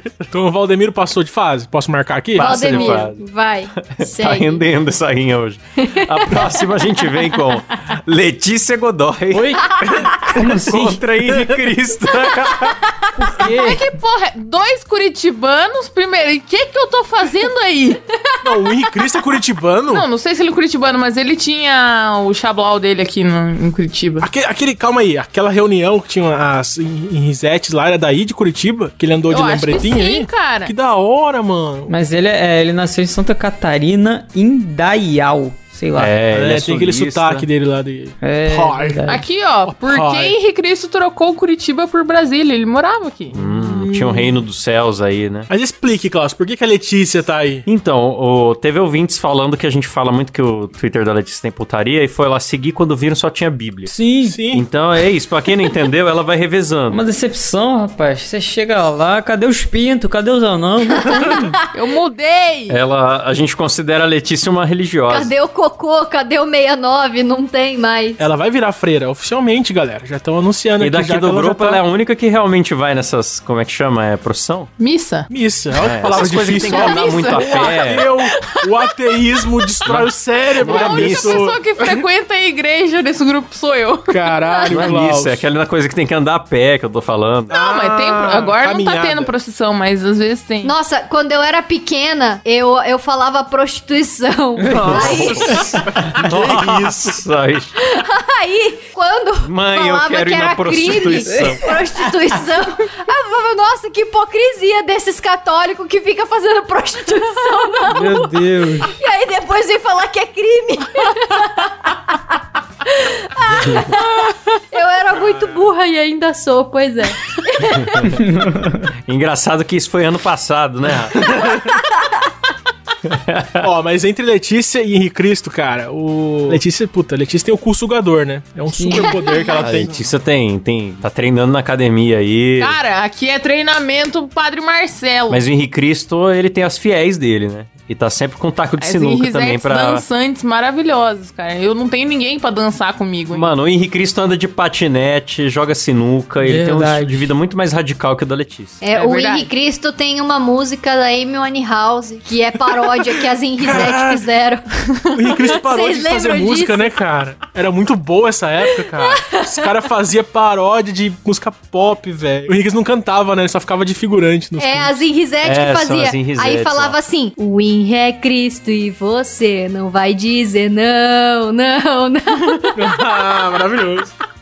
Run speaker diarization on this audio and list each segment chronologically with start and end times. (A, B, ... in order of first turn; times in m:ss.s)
0:00.3-0:02.8 A
0:02.3-0:03.2 B
0:02.4-0:04.6 C
0:03.8-0:12.8 B
0:05.8-0:07.0 C
0:09.3-0:11.0 D
0:13.2-0:13.9 D
0:13.4-0:18.0 E
0:18.4-0:20.0 A
0:19.9-0:24.3 E
0:24.2-0:31.9 A
0:29.3-0:30.7 E
0:31.9-0:36.2 D
0:36.0-0:37.5 B
0:36.3-0:39.0 A
0:38.2-0:39.2 D
0:39.1-0:43.3 E
0:39.7-0:40.4 A
0:43.3-0:45.5 B
0:43.3-0:44.4 A
0:45.5-0:47.6 A
0:47.6-0:53.9 B
0:53.8-0:54.4 D
0:54.2-0:54.6 A
0:54.5-0:57.0 B
0:56.9-1:01.6 D
1:01.0-1:01.6 C
1:01.7-1:02.8 E
1:02.7-1:05.3 B
1:05.1-1:08.2 C
1:08.2-1:11.8 A
1:10.8-1:14.7 B
1:14.8-1:15.3 E
1:15.3-1:22.0 A
1:15.8-1:18.1 B
1:16.1-1:20.0 E
1:19.8-1:21.5 B
1:20.5-1:24.9 E
1:24.1-1:25.4 A
1:24.7-1:27.5 B
1:27.5-1:29.3 A
1:27.5-1:30.7 E
1:30.6-1:35.7 C
1:34.6-1:35.1 D
1:34.7-1:37.7 B
1:34.8-1:37.2 A
1:37.8-1:58.2 C
1:39.4-1:41.6 B
1:41.3-1:41.8 D
1:47.8-1:48.9 D
1:57.8-1:58.2 B
1:58.2-1:58.9 D
1:59.0-2:01.7 B
2:03.0-2:03.7 B
2:03.6-2:10.0 A
2:08.7-2:09.2 D
2:09.0-2:09.5 C
2:09.5-2:12.8 B
2:12.6-2:15.4 E
2:15.3-2:20.0 B
2:18.8-2:23.5 E
2:23.3-2:28.8 B
2:26.4-2:27.3 D
2:28.8-2:36.9 C
2:28.9-2:29.5 E
2:33.6-2:34.2 A
2:35.1-2:45.0 A
2:38.9-2:39.7 C
2:44.6-2:53.0 C
2:45.4-2:47.0 B
2:52.7-2:54.1 A